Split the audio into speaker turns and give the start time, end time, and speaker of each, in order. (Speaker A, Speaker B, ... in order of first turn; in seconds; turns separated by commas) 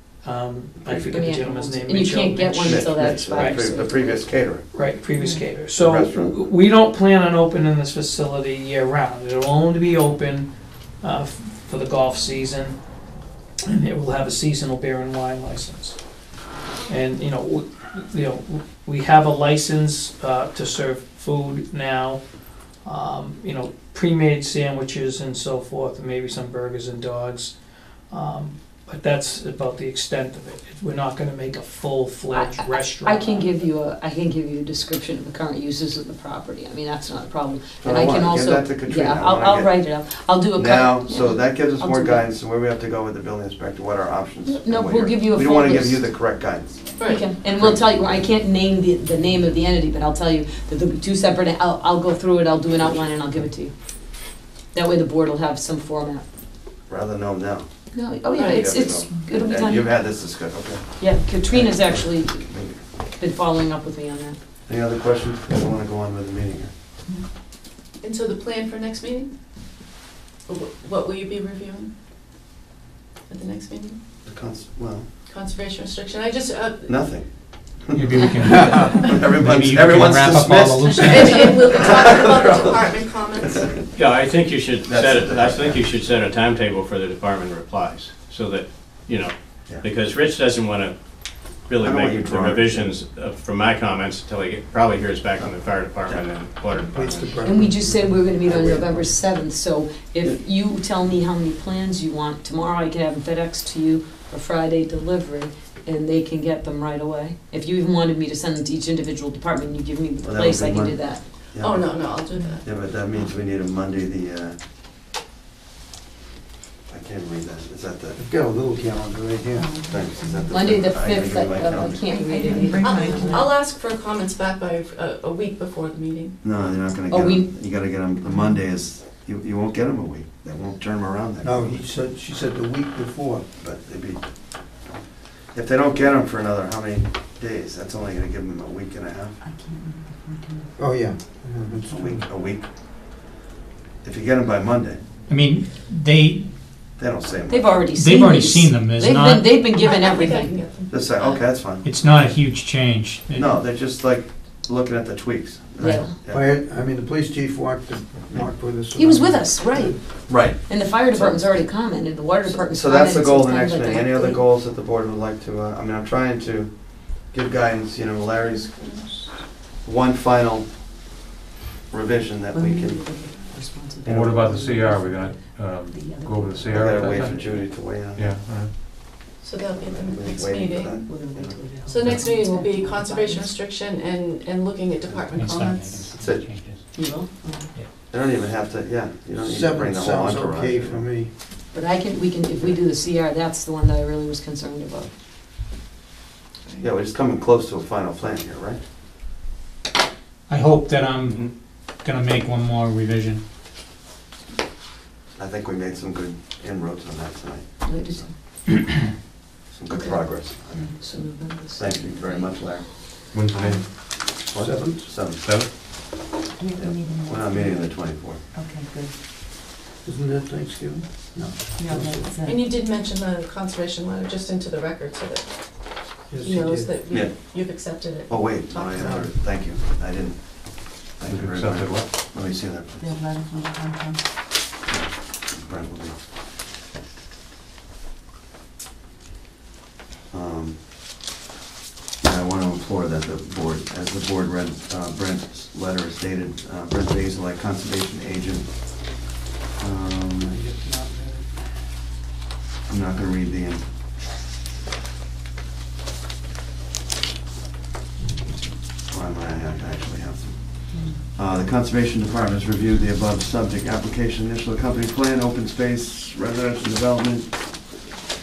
Speaker A: 0.2-3.6, Speaker B: 0.8-1.3, Speaker C: 1.1-4.2, Speaker B: 2.6-4.6, Speaker A: 4.7-10.5, Speaker B: 5.7-6.4, Speaker A: 11.0-12.8, Speaker A: 13.6-16.0, Speaker A: 16.9-22.2, Speaker A: 22.8-27.5, Speaker A: 28.1-33.5, Speaker C: 32.3-42.2, Speaker B: 37.8-40.0, Speaker B: 40.5-46.9, Speaker C: 44.4-46.1, Speaker D: 47.0-47.3, Speaker C: 47.0-53.7, Speaker B: 47.5-48.2, Speaker B: 52.8-53.4, Speaker C: 54.7-56.2, Speaker B: 56.9-57.7, Speaker C: 57.9-59.9, Speaker D: 58.4-58.6, Speaker B: 58.4-62.8, Speaker C: 61.0-62.5, Speaker C: 63.2-64.3, Speaker B: 64.7-66.7, Speaker D: 68.0-69.3, Speaker D: 70.5-71.9, Speaker D: 73.3-74.0, Speaker B: 74.2-75.1, Speaker D: 75.3-77.0, Speaker B: 76.9-77.3, Speaker E: 77.9-81.5, Speaker B: 78.7-83.8, Speaker D: 81.0-83.7, Speaker F: 84.0-91.0, Speaker B: 84.8-86.0, Speaker F: 91.7-97.4, Speaker B: 91.8-92.9, Speaker G: 96.7-99.1, Speaker C: 97.4-111.2, Speaker B: 98.4-98.9, Speaker B: 110.2-114.6, Speaker D: 111.6-112.6, Speaker B: 116.9-118.2, Speaker G: 118.2-119.7, Speaker H: 119.6-120.4, Speaker B: 119.9-122.0, Speaker C: 120.5-123.5, Speaker H: 122.1-123.5, Speaker D: 122.8-126.4, Speaker B: 126.4-131.8, Speaker C: 127.1-127.5, Speaker G: 131.4-133.4, Speaker B: 133.6-139.4, Speaker H: 139.5-140.7, Speaker G: 140.8-142.2, Speaker B: 141.9-142.7, Speaker B: 144.0-145.0, Speaker E: 145.3-146.5, Speaker B: 147.0-147.9, Speaker C: 147.5-150.6, Speaker E: 147.9-149.5, Speaker D: 149.7-151.0, Speaker B: 150.9-151.8, Speaker E: 151.8-153.6, Speaker B: 153.3-156.4, Speaker C: 155.8-156.1, Speaker G: 156.3-160.0, Speaker C: 158.9-164.4, Speaker B: 160.3-161.5, Speaker B: 162.5-168.9, Speaker D: 168.8-169.0, Speaker B: 169.8-170.7, Speaker B: 171.9-173.2, Speaker C: 172.5-177.8, Speaker B: 174.0-174.6, Speaker I: 174.1-177.3, Speaker B: 176.7-178.3, Speaker I: 178.1-178.7, Speaker D: 179.4-180.9, Speaker B: 179.8-181.6, Speaker C: 181.1-182.7, Speaker D: 181.9-186.1, Speaker H: 182.1-183.2, Speaker E: 185.3-186.8, Speaker B: 186.2-186.5, Speaker C: 186.9-187.7, Speaker B: 188.1-191.1, Speaker G: 189.3-191.3, Speaker C: 191.7-195.1, Speaker B: 196.8-198.8, Speaker E: 200.5-203.4, Speaker B: 205.3-208.3, Speaker C: 207.8-208.3, Speaker B: 209.7-212.9, Speaker C: 209.9-212.8, Speaker I: 213.3-213.8, Speaker B: 214.4-215.4, Speaker G: 214.5-215.1, Speaker I: 215.4-215.7, Speaker H: 216.6-217.9, Speaker B: 216.8-218.4, Speaker H: 218.5-219.1, Speaker G: 220.0-222.3, Speaker H: 221.8-222.7, Speaker D: 222.4-229.2, Speaker G: 226.3-226.9, Speaker B: 227.1-233.1, Speaker G: 229.0-229.3, Speaker I: 231.2-232.1, Speaker H: 233.0-234.2, Speaker B: 234.9-236.1, Speaker B: 240.3-240.8, Speaker B: 242.2-248.7, Speaker B: 249.8-250.5, Speaker G: 250.4-251.6, Speaker B: 252.9-253.8, Speaker G: 258.2-258.6, Speaker B: 259.1-267.6